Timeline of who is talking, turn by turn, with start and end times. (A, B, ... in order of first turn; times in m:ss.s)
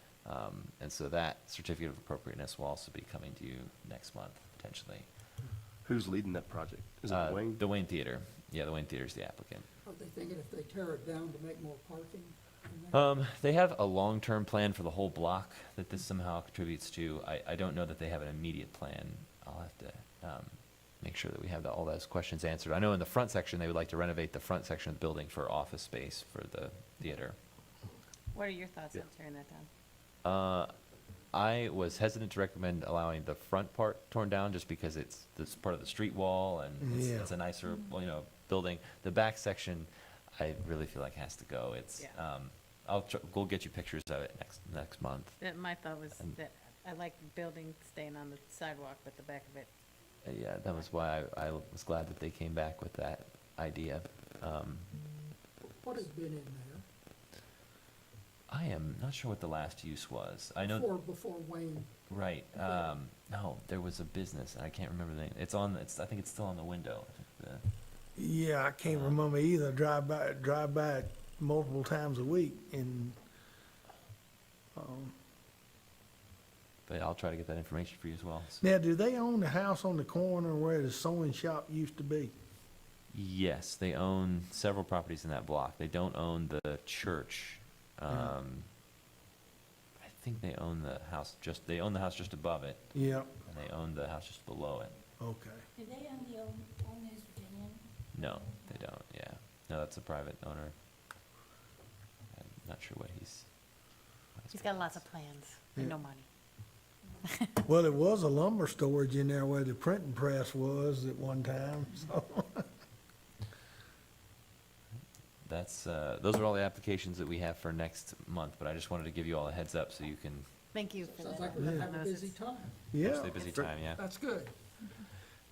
0:00.2-0:05.1 A
0:05.8-0:07.6 B
0:07.1-0:09.7 A
0:09.8-0:13.0 C
0:12.9-0:27.4 A
0:28.3-0:29.7 D
0:30.2-0:30.7 A
0:31.3-0:45.4 A
0:36.8-0:37.3 E
0:45.4-0:49.7 D
0:50.2-0:54.9 A
0:55.8-0:56.8 C
0:58.5-1:00.9 A
1:00.6-1:01.9 C
1:02.1-1:07.6 A
1:08.2-1:13.2 E
1:08.8-1:09.2 A
1:14.8-1:15.1 E
1:16.9-1:18.6 A
1:18.6-1:22.3 E
1:23.1-1:28.7 A
1:30.0-1:35.0 A
1:32.9-1:33.3 E
1:35.2-1:35.7 E
1:35.8-1:38.0 F
1:38.1-1:40.8 A
1:42.3-1:43.5 A
1:44.4-1:45.0 A
1:44.5-1:46.3 D
1:47.2-1:47.6 D
1:47.7-1:52.7 E
1:55.4-2:00.5 A
2:00.7-2:02.3 D
2:01.0-2:02.8 C
2:02.9-2:03.3 E
2:03.0-2:04.0 A
2:03.4-2:03.7 B
2:04.0-2:04.5 C